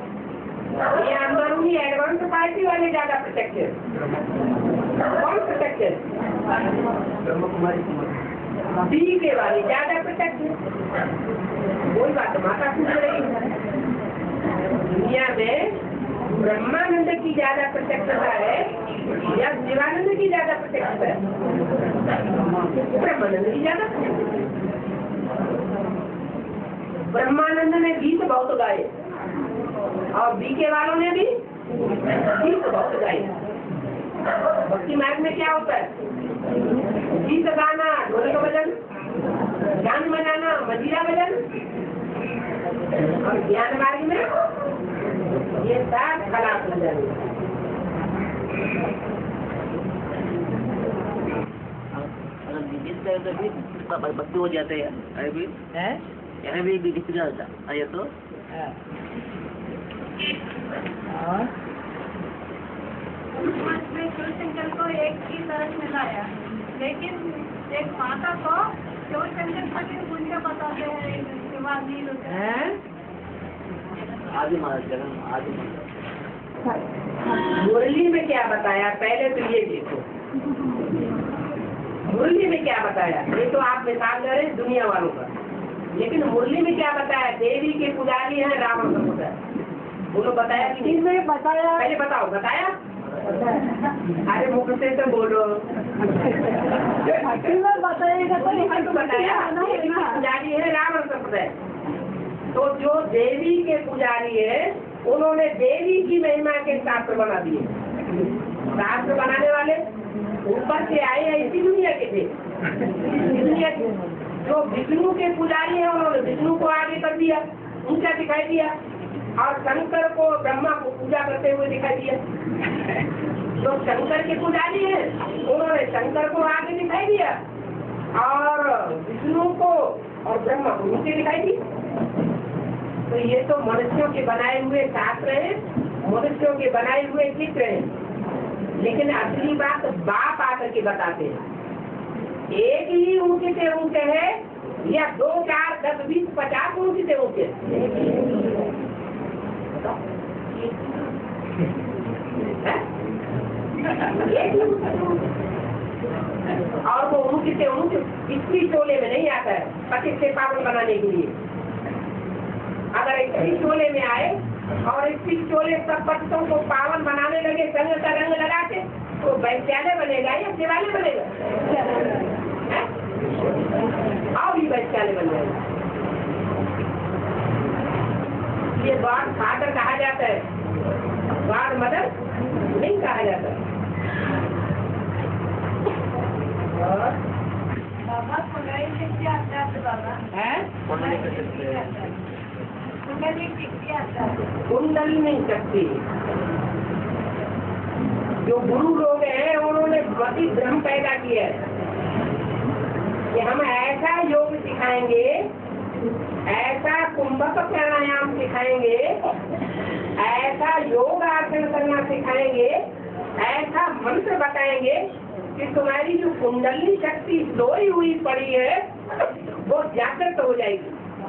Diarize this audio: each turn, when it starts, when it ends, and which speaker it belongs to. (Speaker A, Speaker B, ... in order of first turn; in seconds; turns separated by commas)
Speaker A: 0.9-3.7, Speaker A: 5.0-6.0, Speaker B: 7.2-8.2, Speaker A: 8.8-10.5, Speaker A: 11.9-13.4, Speaker A: 14.9-15.8, Speaker A: 16.3-18.7, Speaker A: 19.2-21.2, Speaker A: 22.8-23.9, Speaker A: 27.1-28.9, Speaker A: 30.1-31.4, Speaker A: 32.2-33.3, Speaker A: 34.6-35.9, Speaker A: 37.1-38.8, Speaker A: 39.8-41.4, Speaker A: 43.2-44.2, Speaker A: 45.6-47.3, Speaker B: 51.9-55.5, Speaker A: 55.7-56.0, Speaker B: 56.4-58.1, Speaker A: 61.1-61.5, Speaker C: 63.3-72.5, Speaker A: 72.3-72.8, Speaker B: 74.3-75.8, Speaker A: 77.5-80.0, Speaker A: 82.1-85.3, Speaker A: 85.9-89.4, Speaker A: 90.1-91.0, Speaker A: 91.8-92.8, Speaker A: 94.2-95.6, Speaker C: 97.4-100.0, Speaker A: 98.4-101.5, Speaker A: 102.5-107.7, Speaker A: 108.7-109.8, Speaker A: 110.4-112.3, Speaker A: 113.1-113.9, Speaker A: 114.4-118.7, Speaker A: 119.4-122.2, Speaker A: 123.6-127.4, Speaker A: 128.2-131.6, Speaker A: 133.1-137.9, Speaker A: 138.8-141.4, Speaker A: 142.5-147.6, Speaker A: 154.1-155.2, Speaker A: 156.8-161.3, Speaker A: 162.9-171.3, Speaker A: 174.3-175.6, Speaker A: 178.7-180.4, Speaker A: 181.3-182.1, Speaker A: 182.7-183.6, Speaker A: 186.7-187.2, Speaker C: 188.1-190.2, Speaker A: 190.3-190.7, Speaker C: 190.8-192.2, Speaker B: 190.8-191.9, Speaker C: 193.0-194.5, Speaker A: 194.7-196.0, Speaker A: 198.4-201.6, Speaker A: 203.3-205.5, Speaker A: 206.5-209.2, Speaker A: 210.2-212.8, Speaker A: 213.4-218.9, Speaker A: 219.6-221.0